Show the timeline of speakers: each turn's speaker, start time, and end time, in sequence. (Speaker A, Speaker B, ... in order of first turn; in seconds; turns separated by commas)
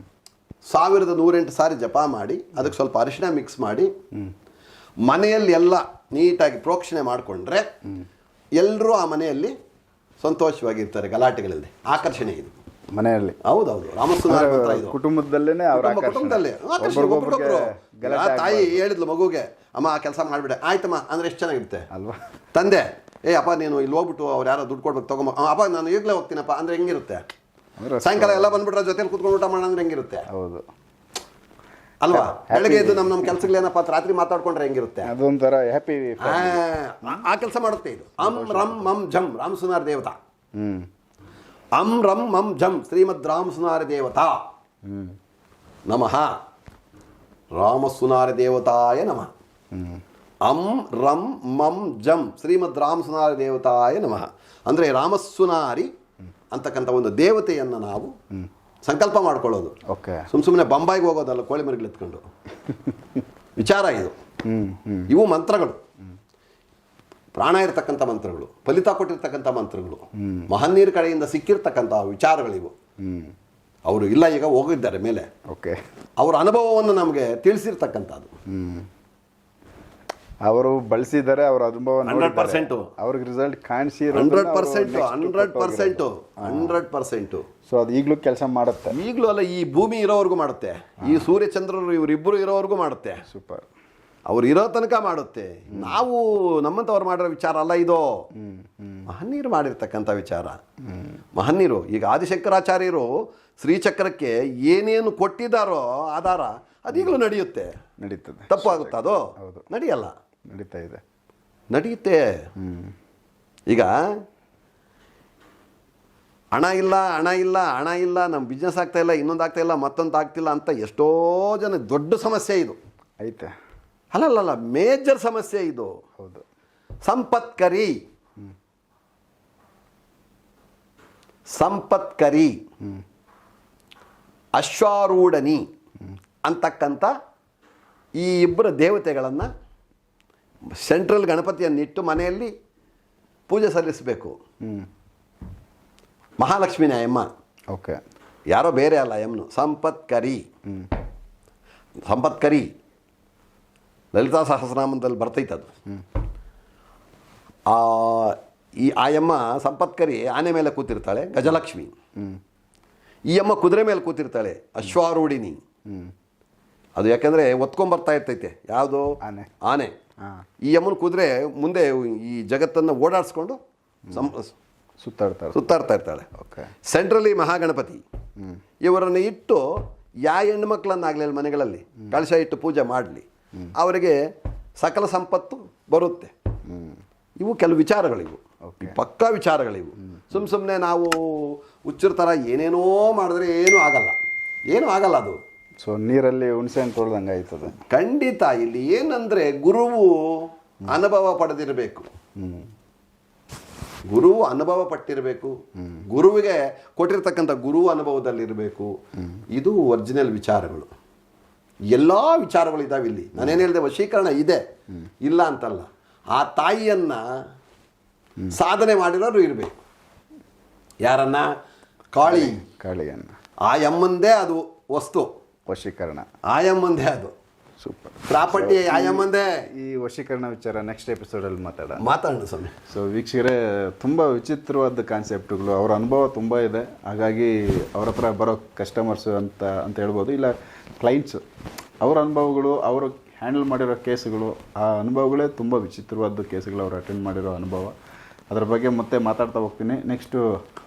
Speaker A: 0.7-3.9, Speaker A: 5.0-7.7, Speaker A: 8.6-9.5, Speaker A: 10.2-12.5, Speaker B: 12.9-13.4, Speaker A: 13.4-14.9, Speaker B: 14.2-18.8, Speaker A: 15.7-21.9, Speaker B: 21.9-22.2, Speaker A: 22.5-27.2, Speaker B: 27.8-28.6, Speaker A: 28.0-30.3, Speaker B: 30.3-30.6, Speaker A: 32.0-35.1, Speaker B: 32.1-33.4, Speaker B: 35.0-36.6, Speaker A: 36.2-40.1, Speaker B: 38.2-38.9, Speaker B: 40.5-40.9, Speaker A: 41.8-44.4, Speaker B: 44.8-45.1, Speaker A: 45.9-46.3, Speaker A: 47.5-49.3, Speaker B: 49.7-50.0, Speaker A: 50.4-55.9, Speaker A: 56.5-58.1, Speaker A: 58.8-59.8, Speaker B: 59.9-60.3, Speaker A: 60.3-62.2, Speaker B: 62.7-63.0, Speaker A: 63.6-64.1, Speaker B: 64.4-65.1, Speaker A: 65.1-65.8, Speaker A: 67.3-72.7, Speaker B: 70.1-70.5, Speaker B: 73.0-73.3, Speaker A: 73.8-75.3, Speaker B: 75.5-75.8, Speaker A: 76.2-78.3, Speaker B: 78.5-78.9, Speaker B: 80.5-86.8, Speaker A: 82.0-82.9, Speaker A: 84.1-87.5, Speaker B: 87.7-89.0, Speaker A: 88.9-93.2, Speaker B: 91.0-91.3, Speaker B: 93.2-93.7, Speaker A: 94.3-98.2, Speaker B: 95.7-96.0, Speaker B: 98.3-99.1, Speaker A: 99.1-100.6, Speaker B: 100.8-101.2, Speaker A: 101.3-107.7, Speaker B: 108.0-109.6, Speaker A: 108.5-110.1, Speaker B: 110.5-111.0, Speaker A: 111.7-112.5, Speaker B: 112.6-112.9, Speaker A: 116.5-122.8, Speaker B: 123.2-123.5, Speaker A: 124.1-125.9, Speaker B: 126.2-126.4, Speaker A: 127.0-128.0, Speaker A: 131.5-132.6, Speaker A: 134.6-135.7, Speaker A: 136.4-137.1, Speaker A: 138.2-139.5, Speaker A: 140.7-142.5, Speaker A: 143.5-144.4, Speaker B: 144.6-144.9, Speaker A: 146.4-147.3, Speaker B: 147.7-148.0, Speaker A: 148.5-150.4, Speaker A: 152.1-152.7, Speaker A: 154.1-155.7, Speaker A: 157.7-161.9, Speaker A: 163.3-165.6, Speaker B: 165.8-166.1, Speaker A: 167.0-169.9, Speaker B: 169.2-169.5, Speaker A: 170.7-173.6, Speaker A: 174.1-174.5, Speaker B: 175.0-175.6, Speaker A: 175.5-176.3, Speaker B: 176.4-176.7, Speaker A: 176.8-178.0, Speaker A: 178.8-183.2, Speaker A: 183.8-184.2, Speaker A: 184.8-186.3, Speaker B: 186.7-187.0, Speaker A: 187.4-194.2, Speaker B: 188.7-189.0, Speaker B: 190.1-190.4, Speaker A: 194.7-195.4, Speaker B: 195.8-197.8, Speaker A: 197.9-202.1, Speaker B: 202.4-202.7, Speaker A: 204.1-205.6, Speaker A: 206.1-208.9, Speaker A: 209.5-210.9, Speaker A: 211.9-214.6, Speaker A: 215.2-217.2, Speaker A: 218.5-219.7, Speaker A: 221.0-221.6, Speaker A: 222.1-222.6, Speaker B: 222.2-223.3, Speaker A: 223.6-225.3, Speaker B: 225.7-226.3, Speaker A: 226.5-227.3, Speaker B: 227.8-232.0, Speaker A: 228.2-229.7, Speaker A: 232.0-232.7, Speaker B: 232.9-241.4, Speaker B: 242.0-247.9, Speaker B: 248.5-250.4